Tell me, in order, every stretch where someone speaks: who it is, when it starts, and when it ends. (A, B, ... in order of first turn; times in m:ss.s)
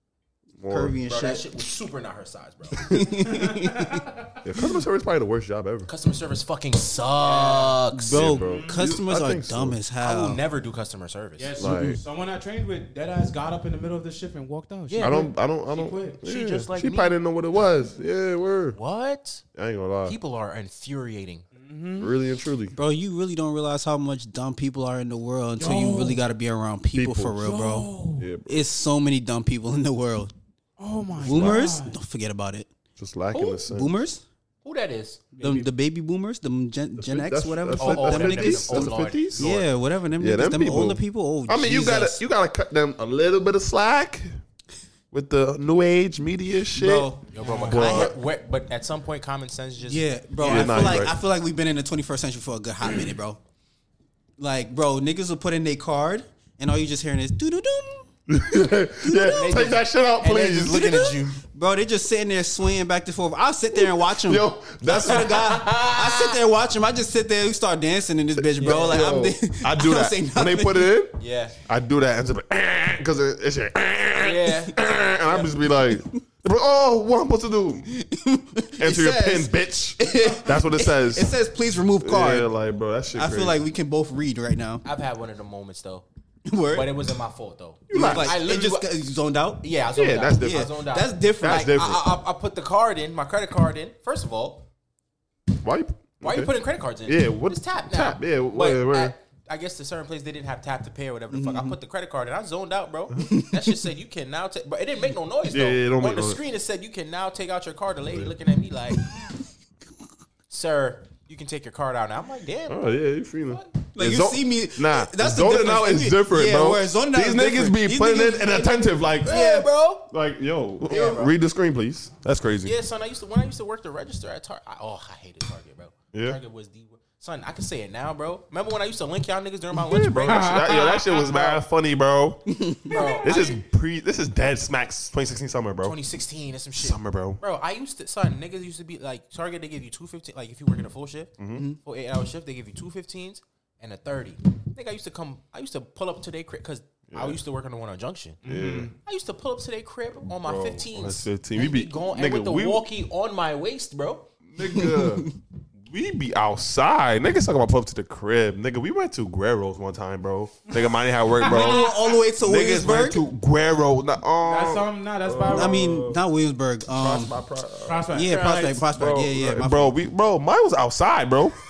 0:00.6-0:01.0 A
0:00.7-0:01.4 B
0:01.0-0:02.9 C
0:02.8-0:04.0 B
0:03.2-0:04.3 D
0:04.4-0:05.9 A
0:05.9-0:08.3 C
0:07.2-0:07.8 D
0:07.9-0:10.4 B
0:08.0-0:09.8 A
0:08.4-0:08.8 D
0:10.0-0:11.5 C
0:11.4-0:16.2 D
0:11.6-0:12.0 A
0:11.6-0:12.0 B
0:14.9-0:15.3 C
0:15.0-0:18.8 A
0:16.2-0:17.2 C
0:18.7-0:19.4 C
0:19.5-0:20.2 A
0:20.0-0:21.4 C
0:21.5-0:22.1 D
0:22.0-0:22.7 A
0:22.7-0:27.9 B
0:25.6-0:26.2 D
0:26.9-0:27.4 A
0:27.4-0:28.3 D
0:28.2-0:28.6 A
0:28.4-0:30.3 B
0:30.8-0:32.0 D
0:31.2-0:31.6 A
0:31.2-0:32.7 B
0:33.0-0:33.9 A
0:33.3-0:34.2 B
0:34.6-0:35.3 C
0:35.3-0:35.7 D
0:35.4-0:42.2 B
0:37.0-0:39.6 A
0:37.8-0:39.6 C
0:40.2-0:44.2 A
0:45.1-0:47.1 A
0:46.7-0:48.1 B
0:47.3-0:51.1 C
0:47.4-0:47.7 D
0:47.7-0:48.1 A
0:49.8-0:53.4 B
0:50.4-0:51.2 A
0:54.4-0:58.1 B
0:58.3-1:01.0 A
0:59.0-0:59.8 B
0:59.2-1:01.4 C
1:00.9-1:11.0 B
1:04.1-1:05.4 A
1:04.9-1:06.4 C
1:08.4-1:17.9 A
1:08.6-1:09.1 C
1:11.2-1:11.6 C
1:14.2-1:15.5 C
1:17.9-1:22.5 B
1:18.8-1:21.3 A
1:22.0-1:23.6 A
1:23.1-1:24.8 B
1:24.8-1:26.0 C
1:26.5-1:27.0 B
1:26.7-1:28.9 C
1:27.9-1:28.4 A
1:27.9-1:29.7 B
1:29.6-1:34.6 C
1:29.9-1:30.7 A
1:30.4-1:31.8 B
1:31.4-1:32.1 A
1:35.6-1:36.5 A
1:36.2-1:49.0 C
1:37.0-1:39.1 A
1:41.3-1:41.8 B
1:43.2-1:43.6 B
1:45.5-1:46.4 A
1:50.5-1:52.9 C
1:52.7-2:02.7 A
1:53.9-1:59.6 B
1:59.2-2:00.1 C
2:00.8-2:01.3 C
2:02.6-2:11.6 C
2:06.1-2:06.4 A
2:09.7-2:12.5 A
2:10.3-2:11.3 D
2:12.5-2:13.0 B
2:12.9-2:13.6 C
2:12.9-2:13.5 D
2:13.2-2:16.0 A
2:15.8-2:28.4 C
2:16.8-2:17.4 A
2:27.1-2:27.4 A
2:28.4-2:28.9 D
2:28.4-2:28.9 A
2:29.0-2:34.3 C
2:30.4-2:32.8 A
2:34.5-2:35.3 A
2:34.6-2:35.3 B
2:35.8-2:41.9 A
2:41.4-2:41.9 D
2:41.4-2:43.2 B
2:42.4-2:46.2 A
2:44.4-2:45.8 D
2:45.5-2:47.3 B
2:46.9-2:48.1 A
2:47.8-2:48.8 D
2:48.1-2:49.9 B
2:48.9-2:51.5 A